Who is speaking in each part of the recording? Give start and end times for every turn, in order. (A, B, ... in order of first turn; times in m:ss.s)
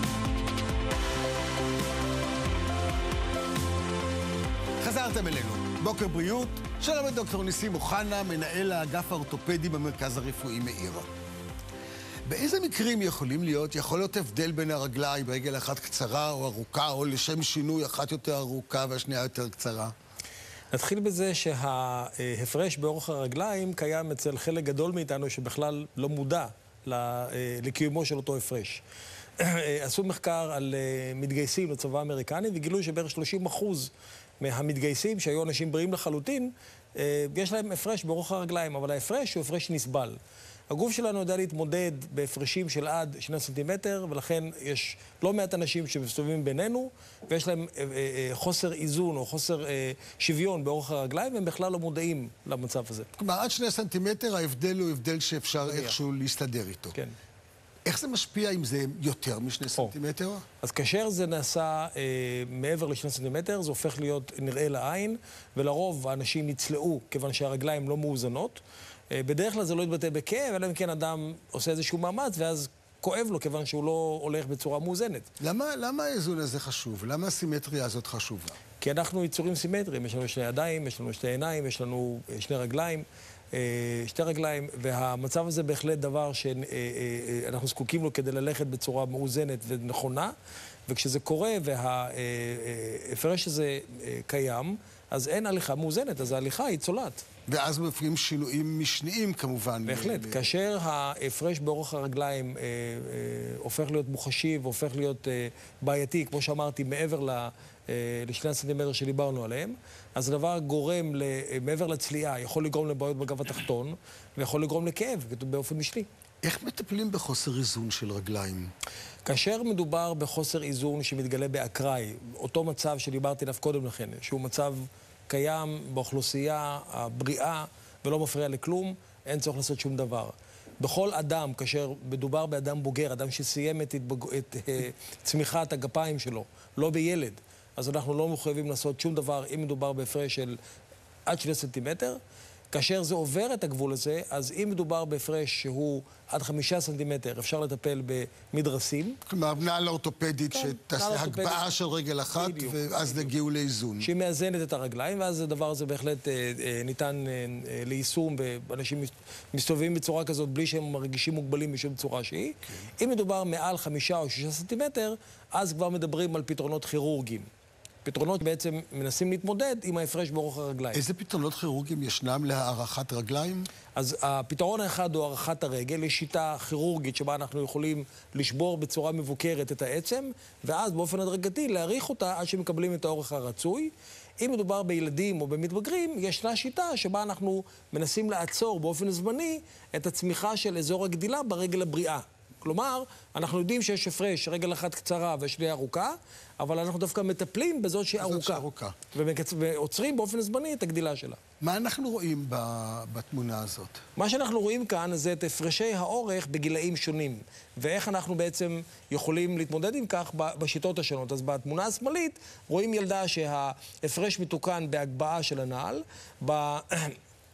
0:04.8-0:11.1 A
0:12.3-0:19.9 A
0:20.7-0:28.8 B
0:29.4-0:40.2 B
0:40.7-0:53.1 B
0:53.2-0:57.0 A
0:55.7-0:56.0 B
0:57.8-1:00.4 A
1:00.6-1:15.3 B
1:15.4-1:18.6 A
1:18.8-1:30.3 B
1:30.9-1:37.2 B
1:37.5-1:40.5 A
1:39.9-1:56.1 B
1:56.4-1:58.7 A
1:59.2-2:20.6 B
2:21.3-2:22.2 B
2:22.7-2:29.2 B
2:29.3-2:34.1 A
2:30.5-2:31.6 B
2:32.4-2:33.3 B
2:34.0-2:47.5 B
2:48.0-2:51.0 B
2:50.9-2:53.7 A
2:54.0-3:21.4 B
3:18.2-3:19.0 A
3:21.6-3:24.0 A
3:24.2-3:37.2 B